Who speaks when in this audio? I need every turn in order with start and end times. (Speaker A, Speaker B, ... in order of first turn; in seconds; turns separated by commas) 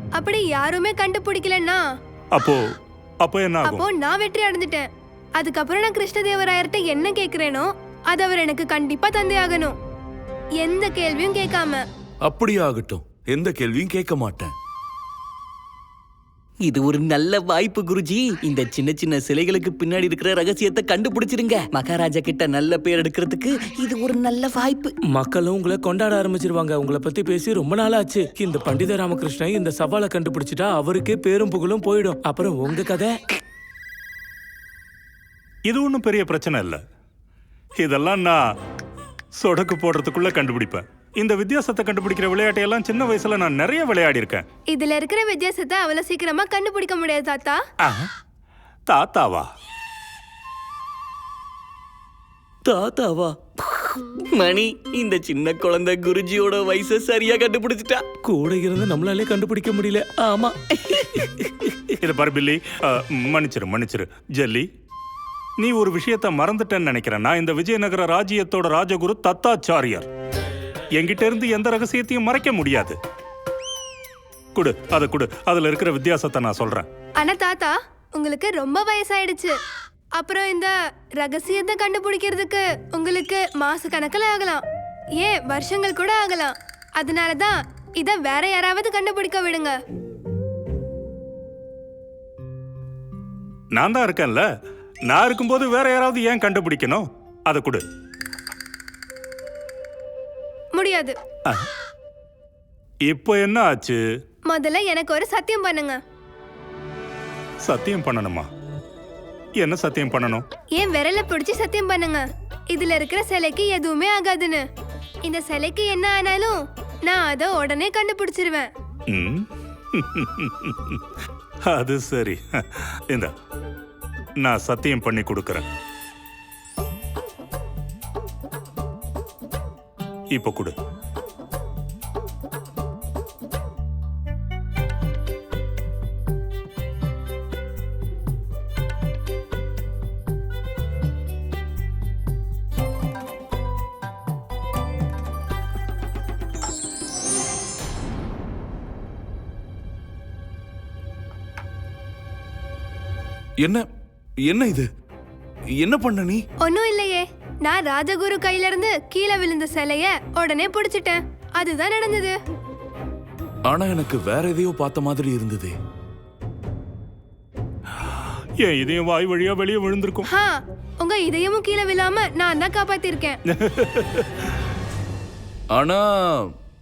Speaker A: 0.1-1.8, Speaker B: 2.3-2.6, Speaker B: 3.2-3.8, Speaker A: 3.6-9.7, Speaker A: 10.6-11.8, Speaker C: 12.2-14.5, Speaker D: 16.6-24.9, Speaker E: 25.1-33.2, Speaker B: 35.7-36.8, Speaker B: 37.8-38.4, Speaker B: 39.4-44.4, Speaker A: 44.7-47.6, Speaker B: 47.8-48.1, Speaker B: 48.9-49.5, Speaker E: 52.6-54.0, Speaker D: 54.3-58.0, Speaker E: 58.2-61.9, Speaker B: 62.0-64.7, Speaker B: 65.6-70.1, Speaker B: 71.0-73.0, Speaker B: 74.5-76.9, Speaker A: 77.2-79.5, Speaker A: 80.2-84.6, Speaker A: 85.2-89.8, Speaker B: 93.7-94.4, Speaker B: 95.1-97.8, Speaker A: 100.8-101.2, Speaker B: 103.1-104.0, Speaker A: 104.5-106.0, Speaker B: 107.6-108.5, Speaker B: 109.6-110.4, Speaker A: 110.8-114.6, Speaker A: 115.2-118.7, Speaker B: 119.1-121.0, Speaker B: 121.7-123.3, Speaker B: 124.4-125.6, Speaker B: 130.3-130.7, Speaker C: 154.4-154.9, Speaker C: 155.8-156.4, Speaker A: 156.6-162.3, Speaker C: 163.7-165.8, Speaker B: 167.9-170.3, Speaker A: 170.3-173.4, Speaker B: 173.5-174.5, Speaker C: 175.7-176.5